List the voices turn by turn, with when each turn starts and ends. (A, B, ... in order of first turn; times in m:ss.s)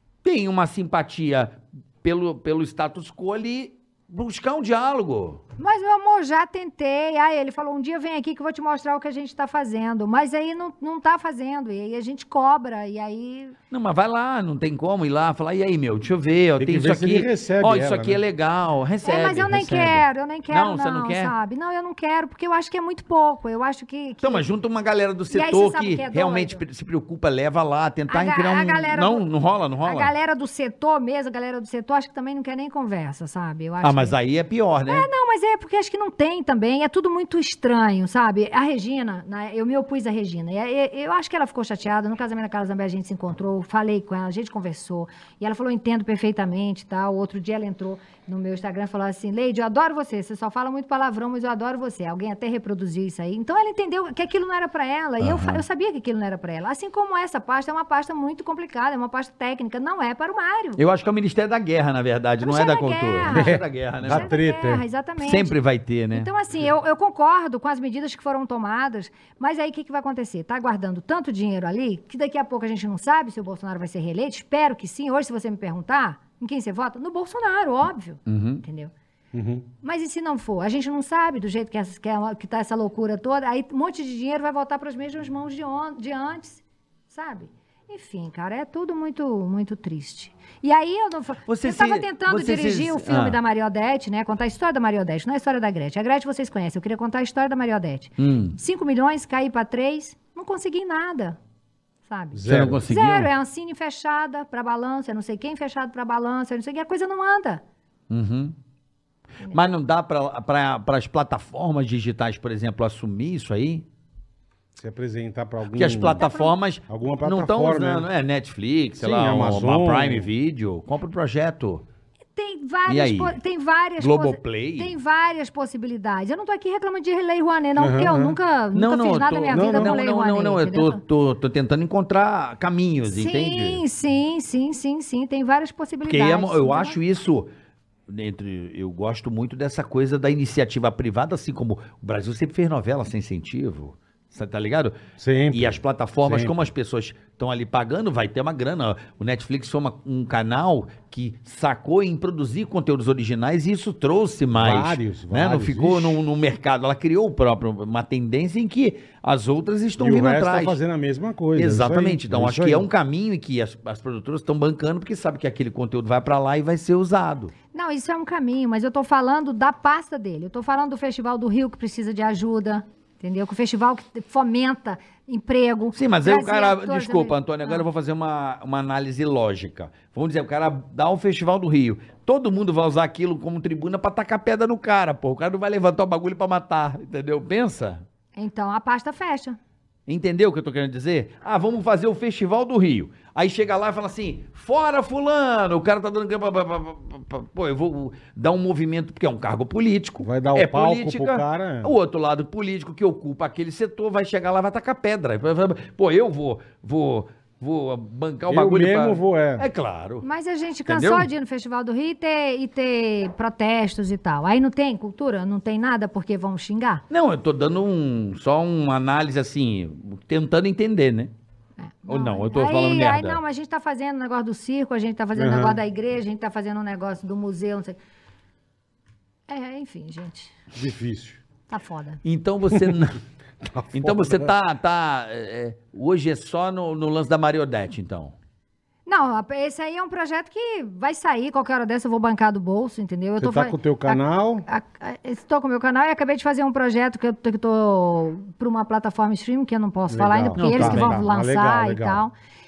0:00.2-0:05.4 A
0:05.6-0:13.6 B
0:13.7-0:21.3 A
0:16.6-0:18.2 C
0:19.0-0:24.5 B
0:24.2-0:30.1 A
0:25.3-0:26.6 B
0:28.1-0:29.2 B
0:29.8-0:34.2 B
0:33.8-0:35.1 A
0:34.9-1:00.8 B
0:55.2-0:55.6 A
1:00.8-1:04.3 A
1:02.4-1:05.5 B
1:03.3-1:04.8 C
1:05.2-1:06.3 A
1:06.1-1:18.9 B
1:18.3-1:18.6 A
1:19.3-1:19.6 C
1:19.8-1:41.4 B
1:31.5-1:33.4 A
1:38.2-1:38.6 A
1:42.0-1:47.6 B
1:42.3-1:42.9 C
1:42.4-1:43.3 A
1:48.1-1:48.5 A
1:49.4-1:49.7 B
1:49.5-1:53.8 A
1:54.8-1:56.2 C
1:55.7-2:01.8 A
1:56.2-1:56.5 B
1:56.9-1:58.1 C
1:59.0-2:00.3 C
2:02.3-2:11.0 B
2:02.9-2:03.4 A
2:04.0-2:05.0 A
2:07.8-2:08.4 C
2:08.7-2:13.8 A
2:09.5-2:09.9 C
2:13.0-2:17.0 B
2:16.1-2:17.5 A
2:18.1-2:25.0 A
2:25.2-2:26.5 C
2:25.5-2:40.8 A
2:34.5-2:36.2 C
2:40.0-2:42.9 C
2:41.6-2:47.5 A
2:47.7-2:57.8 B
2:55.9-3:08.0 A
3:08.4-3:09.6 B
3:10.1-3:30.2 A
3:20.2-3:22.0 C
3:28.5-3:29.7 C
3:30.2-3:37.0 B
3:30.9-3:31.3 A
3:37.1-3:41.3 A
3:41.8-3:48.0 B
3:42.1-3:43.4 A
3:45.3-3:45.8 C
3:49.5-3:50.5 B
3:50.7-3:51.4 C
3:51.7-3:52.2 B
3:52.2-3:53.2 A
3:53.6-3:54.5 C
3:53.9-3:58.3 A
3:59.0-4:12.3 B
4:03.4-4:04.6 C
4:10.1-4:12.2 C
4:10.6-4:11.2 A